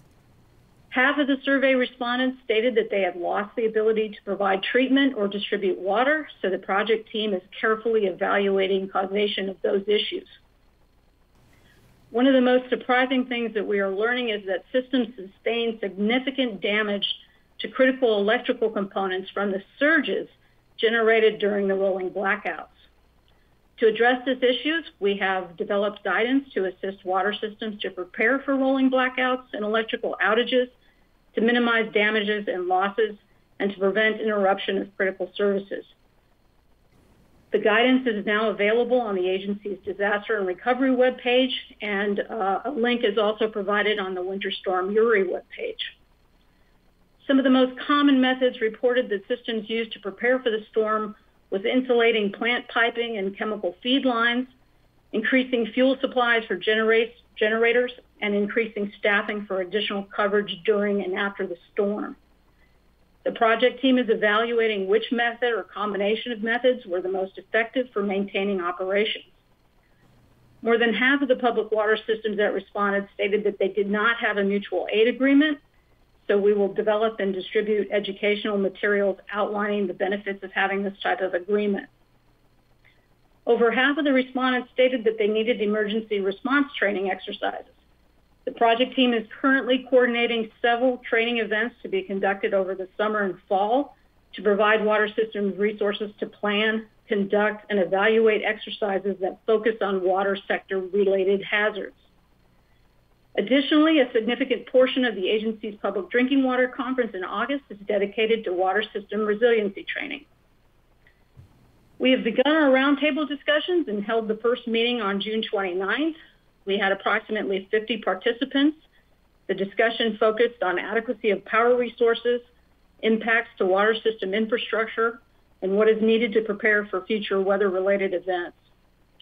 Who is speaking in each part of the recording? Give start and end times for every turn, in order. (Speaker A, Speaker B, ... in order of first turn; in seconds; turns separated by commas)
Speaker A: 0.9-10.4, Speaker A: 12.1-22.8, Speaker A: 23.8-30.8, Speaker A: 31.3-35.9, Speaker A: 37.5-46.0, Speaker A: 47.2-54.5, Speaker A: 55.1-62.2, Speaker A: 63.2-69.4, Speaker A: 70.6-75.6, Speaker A: 76.2-81.9, Speaker A: 83.5-87.8, Speaker A: 88.5-102.1, Speaker A: 103.3-110.2, Speaker A: 112.0-118.8, Speaker A: 119.5-122.5, Speaker A: 123.0-128.7